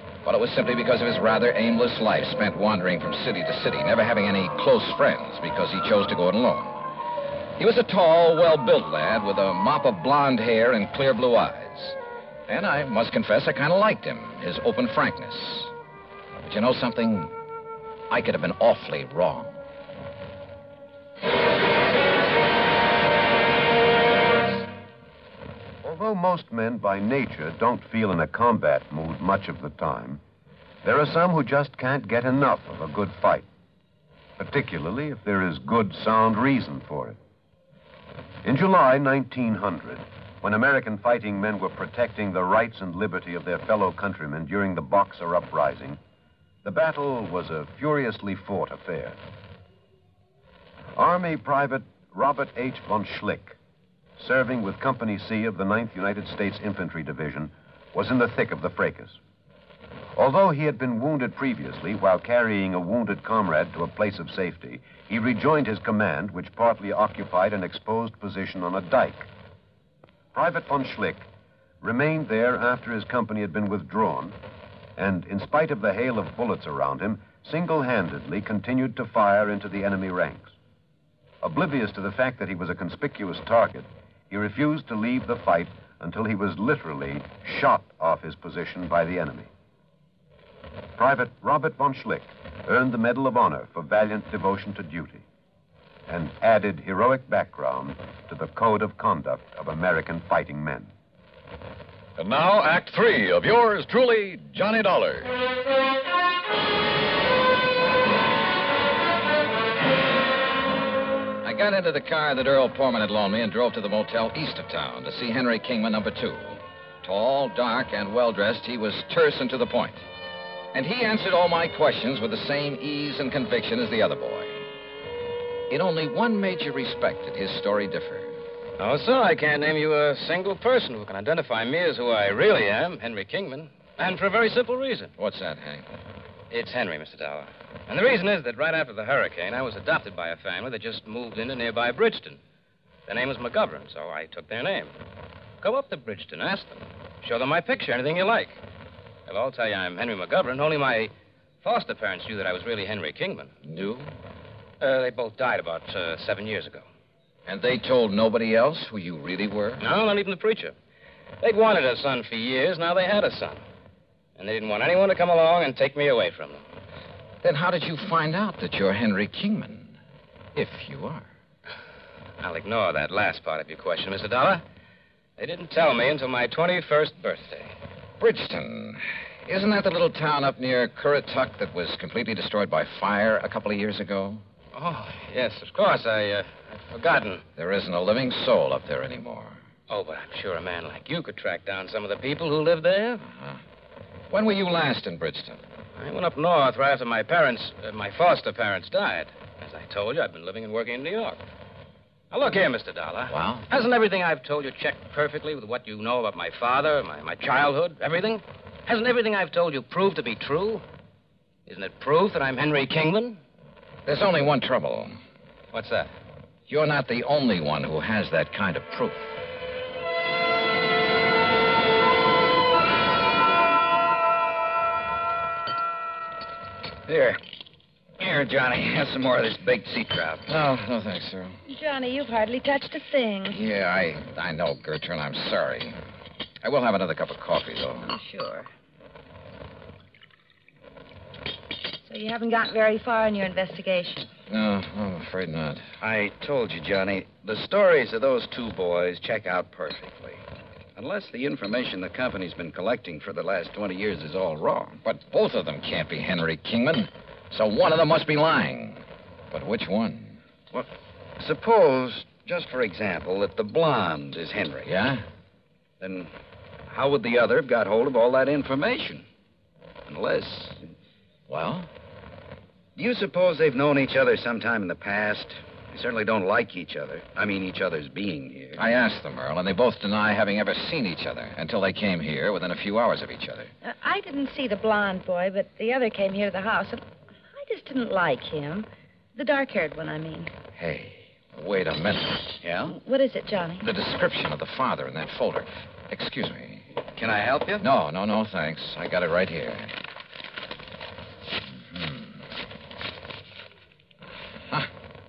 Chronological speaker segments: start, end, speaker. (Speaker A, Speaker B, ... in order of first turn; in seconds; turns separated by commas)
Speaker A: 0.2-6.8, Speaker A: 7.6-12.0, Speaker A: 12.5-15.7, Speaker A: 16.4-17.3, Speaker A: 18.1-19.6, Speaker B: 25.8-30.2, Speaker B: 30.8-33.5, Speaker B: 34.4-37.2, Speaker B: 38.4-46.0, Speaker B: 46.6-49.2, Speaker B: 51.0-53.6, Speaker B: 54.2-59.2, Speaker B: 60.1-69.3, Speaker B: 70.3-71.3, Speaker B: 71.8-74.4, Speaker B: 75.0-80.5, Speaker B: 81.4-89.5, Speaker B: 91.0-95.2, Speaker B: 96.1-100.9, Speaker C: 102.2-105.3, Speaker A: 111.4-120.0, Speaker A: 120.7-124.6, Speaker A: 125.7-128.3, Speaker D: 128.8-135.1, Speaker A: 135.2-135.8, Speaker D: 136.5-142.4, Speaker D: 143.1-144.9, Speaker D: 145.6-148.6, Speaker D: 149.3-153.5, Speaker A: 153.6-154.1, Speaker D: 154.8-156.8, Speaker A: 157.5-159.9, Speaker D: 159.8-160.7, Speaker D: 161.4-163.6, Speaker D: 164.3-166.6, Speaker A: 167.4-170.0, Speaker A: 170.5-171.3, Speaker D: 172.4-174.6, Speaker D: 175.4-177.7, Speaker A: 178.2-184.4, Speaker D: 184.7-187.4, Speaker A: 187.6-189.6, Speaker D: 189.9-193.2, Speaker A: 194.3-195.6, Speaker D: 196.0-201.4, Speaker D: 202.3-210.8, Speaker A: 203.3-203.7, Speaker D: 211.7-213.4, Speaker A: 214.1-215.2, Speaker D: 215.7-216.1, Speaker A: 216.7-219.3, Speaker E: 227.1-227.4, Speaker E: 228.2-230.5, Speaker A: 230.5-231.6, Speaker F: 231.7-233.6, Speaker A: 233.5-236.0, Speaker A: 236.6-238.1, Speaker F: 238.1-238.7, Speaker F: 242.0-244.3, Speaker A: 244.5-245.8, Speaker E: 246.0-250.4, Speaker E: 250.9-255.0, Speaker A: 255.0-260.4, Speaker E: 261.4-264.9, Speaker A: 264.8-265.2, Speaker E: 266.0-266.3, Speaker E: 266.9-269.2, Speaker E: 270.1-270.9, Speaker A: 271.5-271.9, Speaker E: 272.9-278.8, Speaker A: 278.8-283.7, Speaker F: 283.8-290.5, Speaker A: 290.8-292.5, Speaker E: 292.6-292.9, Speaker F: 292.9-293.8, Speaker A: 293.8-296.8, Speaker E: 297.1-297.9, Speaker A: 297.8-299.9, Speaker A: 301.9-302.4